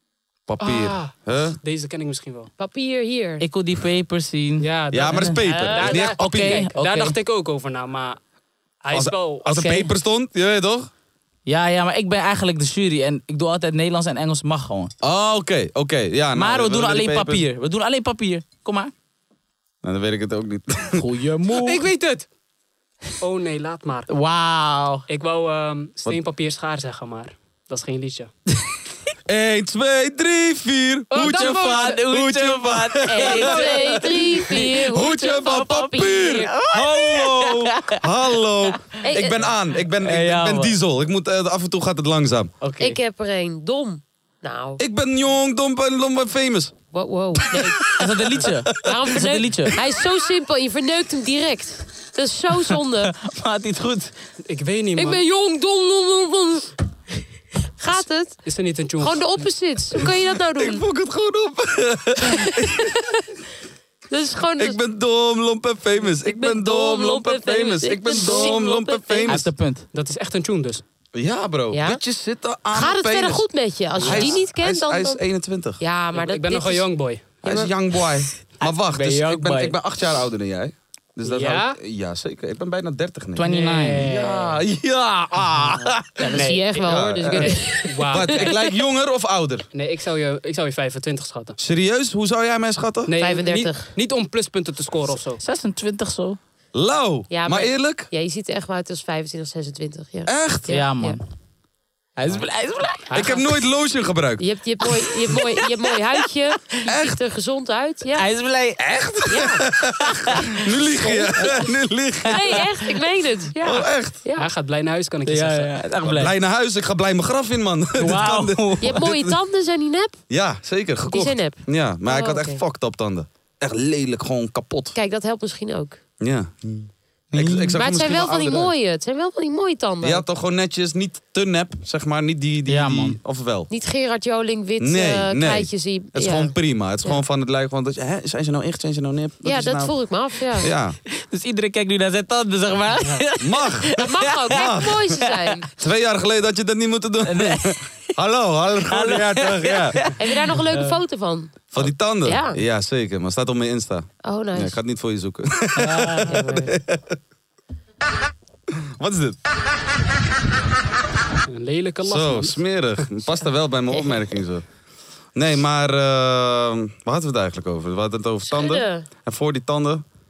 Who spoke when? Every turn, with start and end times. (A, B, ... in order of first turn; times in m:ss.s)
0:00.5-0:01.6 A
0:00.6-0:02.5 B
0:02.6-0:03.4 C
0:03.4-0:07.2 D
0:04.6-0:08.2 B
0:04.9-0:06.7 A
0:08.8-0:09.9 B
0:08.9-0:10.9 A
0:11.4-0:14.9 D
0:15.0-0:17.4 A
0:16.4-0:18.9 D
0:19.8-0:21.0 A
0:20.9-0:21.8 D
0:21.5-0:22.3 B
0:23.2-0:24.1 B
0:24.1-0:25.0 D
0:25.1-0:28.3 B
0:29.2-0:42.5 A
0:31.1-0:34.0 D
0:31.1-0:31.9 B
0:33.1-0:36.5 C
0:35.5-0:38.0 D
0:39.0-0:39.5 C
0:40.0-0:40.8 D
0:42.6-0:43.0 D
0:42.8-0:44.8 C
0:44.8-0:46.7 A
0:46.9-0:47.9 C
0:47.6-0:48.5 A
0:47.9-0:49.7 D
0:48.8-0:53.1 C
0:53.0-0:54.1 D
0:54.4-0:55.2 B
0:55.0-0:56.7 C
0:57.8-0:58.4 C
0:58.0-0:59.5 B
0:59.0-1:00.8 C
1:00.5-1:02.9 A
1:04.1-1:04.8 C
1:04.6-1:09.5 A
1:06.2-1:09.4 C
1:09.2-1:09.9 D
1:09.9-1:10.8 B
1:11.1-1:13.5 A
1:11.7-1:12.0 C
1:12.7-1:15.2 C
1:14.0-1:14.4 B
1:14.0-1:15.8 A
1:15.8-1:17.7 C
1:16.1-1:17.4 B
1:17.4-1:26.3 A
1:18.6-1:19.7 D
1:21.2-1:21.8 B
1:23.4-1:24.0 D
1:23.4-1:24.6 B
1:26.2-1:28.4 C
1:26.3-1:28.6 B
1:26.8-1:29.6 A
1:29.7-1:31.6 B
1:31.6-1:33.1 A
1:33.1-1:35.4 B
1:33.2-1:33.9 C
1:35.4-1:36.4 D
1:36.7-1:38.1 A
1:37.3-1:41.2 C
1:40.3-1:40.8 A
1:40.7-1:41.2 D
1:42.2-1:43.3 D
1:43.1-1:43.4 B
1:43.1-1:44.4 A
1:44.4-1:48.3 C
1:45.3-1:45.7 D
1:46.8-1:47.2 A
1:48.1-1:50.6 D
1:48.9-1:52.6 A
1:49.3-1:49.6 C
1:51.0-1:51.6 C
1:52.2-1:52.6 D
1:52.3-1:54.5 C
1:53.6-1:54.2 A
1:54.3-1:55.8 B
1:55.2-1:56.3 D
1:56.0-1:59.3 A
1:58.0-1:59.0 D
1:58.8-2:00.2 C
2:00.3-2:04.9 A
2:01.1-2:02.6 C
2:04.9-2:06.0 C
2:06.2-2:08.7 A
2:07.4-2:10.2 C
2:10.0-2:13.7 A
2:12.7-2:13.2 D
2:13.7-2:17.2 C
2:14.8-2:21.0 A
2:19.4-2:20.7 C
2:21.2-2:25.2 D
2:23.4-2:30.1 A
2:24.0-2:25.7 C
2:27.2-2:27.8 D
2:28.9-2:31.0 D
2:30.2-2:32.6 C
2:31.7-2:37.2 A
2:34.2-2:34.8 C
2:35.8-2:36.4 D
2:36.3-2:36.7 C
2:38.8-2:39.4 A
2:41.5-2:42.6 B
2:42.0-2:44.6 A
2:43.9-2:44.2 C
2:45.3-2:50.0 A
2:48.5-2:49.1 C